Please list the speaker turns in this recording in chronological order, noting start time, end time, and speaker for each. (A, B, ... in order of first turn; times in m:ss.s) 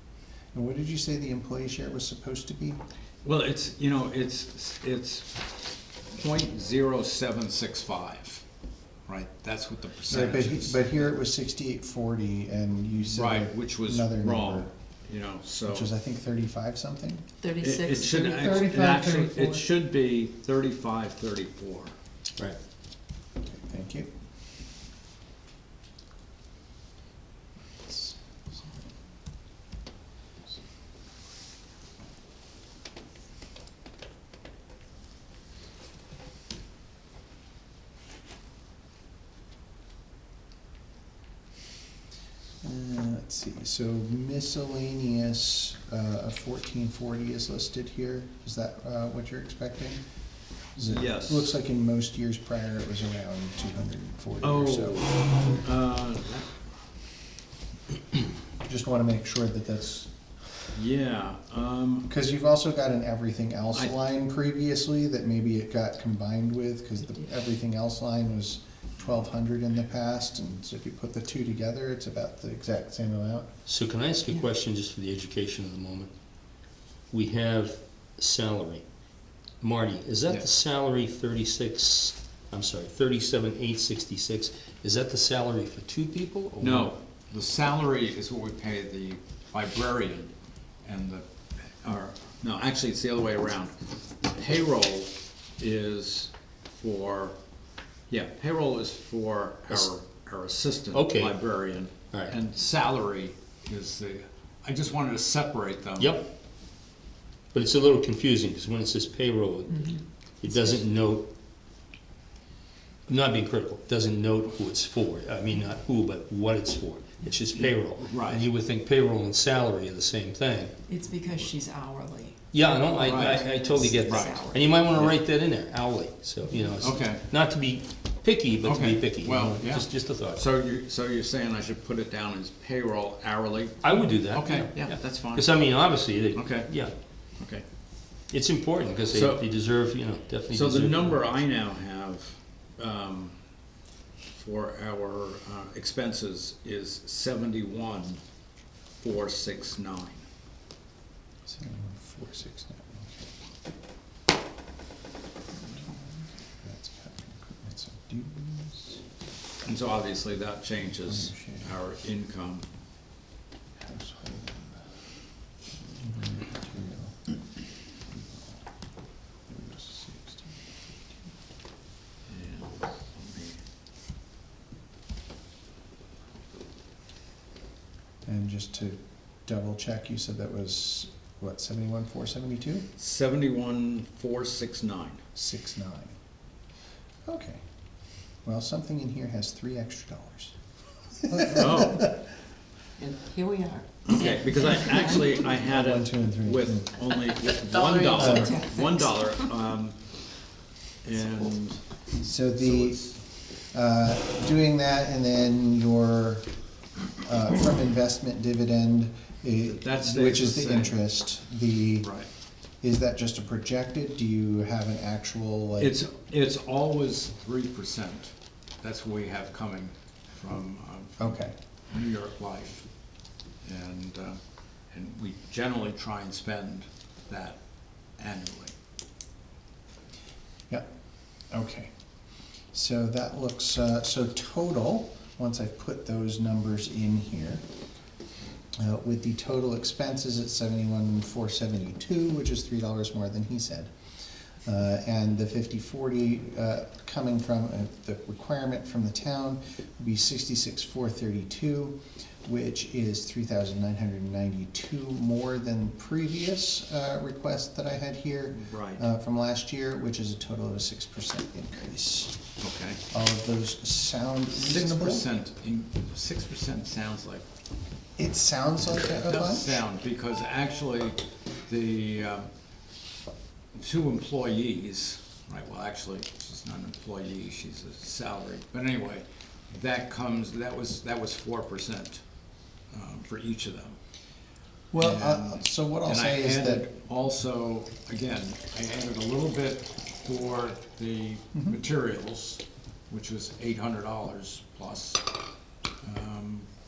0:00.5-0:02.8 A
0:03.2-0:05.4 B
0:06.1-0:08.4 B
0:09.0-0:11.1 B
0:10.1-0:14.7 A
0:13.1-0:15.9 B
0:15.6-0:17.2 A
0:17.4-0:18.5 C
0:17.6-0:21.9 B
0:18.1-0:19.6 A
0:23.5-0:24.1 A
0:27.8-0:28.1 A
0:42.6-0:50.0 A
0:50.8-0:55.6 A
0:50.8-0:51.5 B
0:54.4-0:56.5 B
0:58.6-1:00.1 A
1:00.7-1:02.1 B
1:02.1-1:13.5 A
1:13.6-1:16.1 D
1:17.1-1:18.8 D
1:19.6-1:26.9 D
1:26.6-1:30.3 B
1:30.8-1:31.2 B
1:31.8-1:33.7 B
1:34.3-1:37.4 B
1:38.1-1:46.2 B
1:40.9-1:41.4 D
1:46.0-1:46.3 D
1:47.5-1:51.3 D
1:53.1-2:00.7 D
1:58.0-1:58.4 B
2:00.9-2:04.6 C
2:02.5-2:10.4 D
2:03.0-2:05.1 B
2:06.8-2:07.2 B
2:08.6-2:15.5 B
2:13.8-2:16.9 D
2:16.3-2:16.7 B
2:18.3-2:21.2 D
2:19.1-2:19.4 B
2:20.5-2:23.4 B
2:24.3-2:28.2 B
2:29.0-2:30.2 B
2:31.4-2:33.3 A
2:35.7-2:39.0 A
2:39.6-2:42.7 B
2:41.1-2:41.7 A
2:43.8-2:44.9 A
2:45.9-2:47.2 A
2:49.5-2:50.9 A
2:52.3-2:53.6 B
2:58.2-3:02.9 A
3:03.0-3:05.2 B
3:05.3-3:06.1 A
3:07.2-3:07.6 A
3:08.4-3:10.5 A
3:11.2-3:12.1 A
3:11.4-3:12.0 B
3:13.0-3:15.2 C
3:14.0-3:20.0 B
3:15.6-3:16.8 A
3:17.8-3:19.4 C
3:18.1-3:18.6 A
3:21.0-3:21.8 B
3:22.2-3:23.0 A
3:22.5-3:23.2 B
3:23.7-3:26.5 A
3:27.2-3:32.1 A
3:29.6-3:31.0 B
3:32.0-3:32.3 B
3:32.8-3:36.0 A
3:35.8-3:41.4 B
3:41.2-3:41.5 A
3:41.9-3:42.9 B
3:43.6-3:44.4 B
3:44.9-3:47.6 B
3:48.2-3:48.7 B
3:51.5-3:51.9 A
3:52.7-3:57.6 A
3:58.8-4:03.9 A
4:04.6-4:22.4 A
4:18.5-4:19.0 B
4:22.6-4:23.0 B
4:23.1-4:25.3 A
4:24.6-4:27.4 B
4:28.2-4:29.8 A
4:28.8-4:32.5 B
4:33.7-4:42.2 B
4:42.9-4:44.0 B
4:44.9-4:46.8 A
4:45.0-4:55.2 B
4:56.0-4:56.7 B